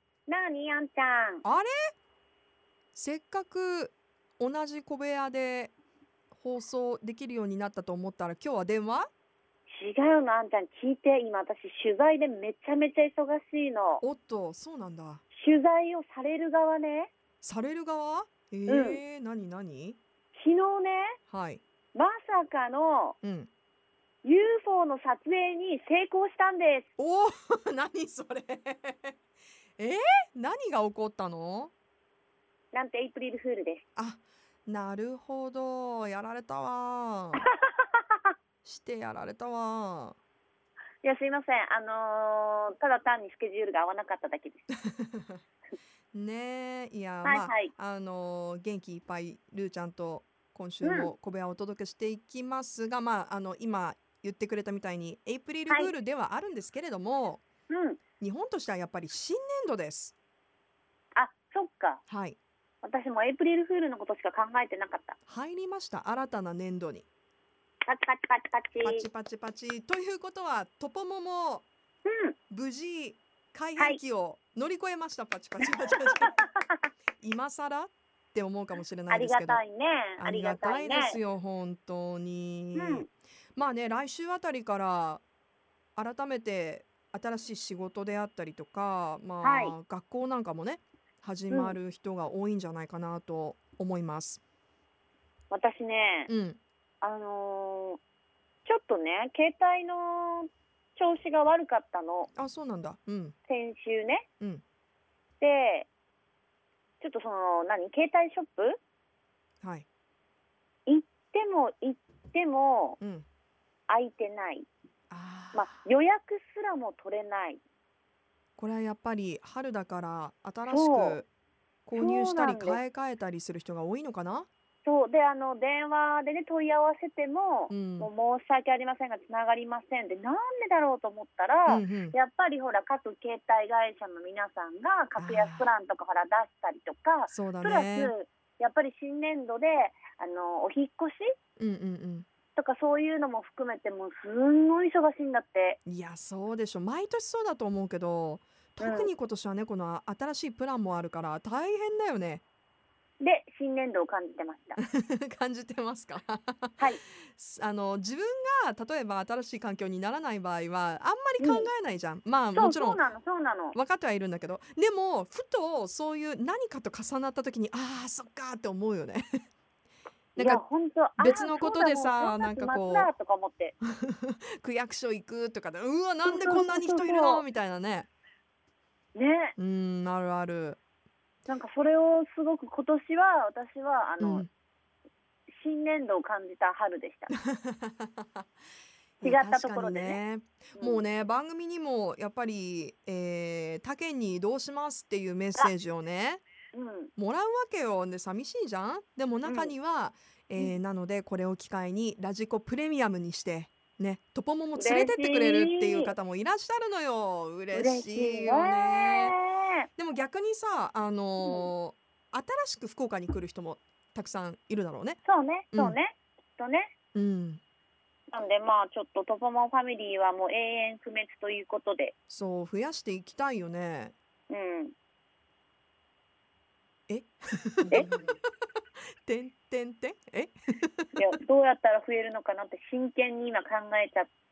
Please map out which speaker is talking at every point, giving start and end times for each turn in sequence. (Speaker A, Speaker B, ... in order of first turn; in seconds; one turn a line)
Speaker A: 0.3-1.4
Speaker B: 1.4-1.9
Speaker B: 3.0-5.7
Speaker B: 6.3-9.1
Speaker A: 9.7-14.0
Speaker B: 14.0-15.2
Speaker A: 15.3-17.1
Speaker B: 17.4-20.0
Speaker A: 18.7-19.0
Speaker A: 20.4-21.2
Speaker B: 21.3-21.6
Speaker A: 21.9-23.2
Speaker B: 23.2-23.5
Speaker A: 24.2-26.9
Speaker B: 27.0-29.2
Speaker B: 29.8-31.7
Speaker A: 32.7-33.8
Speaker B: 34.0-37.4
Speaker A: 37.4-38.3
Speaker B: 38.6-40.2
Speaker A: 41.0-44.6
Speaker B: 44.9-45.4
Speaker B: 46.1-57.4
Speaker A: 47.2-47.7
Speaker A: 50.8-51.1
Speaker A: 57.7-58.0
Speaker B: 58.2-60.1
Speaker A: 61.2-62.0
Speaker B: 62.1-62.4
Speaker A: 62.8-65.2
Speaker B: 65.3-67.0
Speaker A: 67.9-69.1
Speaker B: 68.8-71.7
Speaker A: 72.0-72.3
Speaker B: 72.5-76.3
Speaker A: 76.1-76.5
Speaker B: 77.2-79.6
Speaker A: 79.1-81.2
Speaker B: 80.2-85.2
Speaker A: 82.7-83.1
Speaker B: 86.0-94.4
Speaker A: 89.4-89.8
Speaker A: 91.5-91.8
Speaker A: 95.5-96.3
Speaker B: 96.3-96.6
Speaker A: 97.0-98.0
Speaker A: 98.7-102.3
Speaker B: 102.4-103.3
Speaker A: 103.5-104.3
Speaker A: 105.4-105.9
Speaker A: 107.0-108.8
Speaker B: 109.6-109.9
Speaker A: 110.8-113.0
Speaker B: 113.0-113.2
Speaker A: 113.9-114.7
Speaker B: 115.1-115.8
Speaker A: 115.5-117.6
Speaker B: 118.6-121.3
Speaker A: 120.7-121.2
Speaker B: 121.8-124.5
Speaker A: 122.0-122.8
Speaker A: 124.8-141.3
Speaker B: 127.7-128.1
Speaker B: 131.7-132.2
Speaker B: 135.2-135.7
Speaker B: 137.3-138.1
Speaker B: 141.6-142.2
Speaker A: 142.6-145.8
Speaker B: 145.9-152.4
Speaker A: 148.8-149.1
Speaker A: 153.2-154.8
Speaker B: 154.8-163.0
Speaker A: 161.4-161.7
Speaker A: 162.5-163.8
Speaker B: 163.7-169.2
Speaker B: 170.4-170.6
Speaker A: 170.4-173.8
Speaker B: 171.2-173.1
Speaker B: 174.0-178.1
Speaker A: 176.2-177.4
Speaker A: 179.2-179.5
Speaker B: 179.6-180.8
Speaker A: 181.5-184.5
Speaker B: 184.2-184.5
Speaker A: 185.5-187.3
Speaker B: 187.3-188.4
Speaker B: 189.2-196.4
Speaker A: 189.2-190.2
Speaker A: 190.8-191.0
Speaker A: 196.7-197.1
Speaker B: 197.2-209.4
Speaker A: 199.4-199.7
Speaker A: 204.8-206.1
Speaker A: 207.7-209.9
Speaker B: 210.0-215.2
Speaker A: 211.4-211.7
Speaker A: 215.2-216.9
Speaker B: 217.1-217.6
Speaker A: 218.3-222.1
Speaker B: 222.3-224.1
Speaker A: 224.5-224.9
Speaker B: 227.1-228.3
Speaker B: 229.2-231.2
Speaker A: 231.2-234.3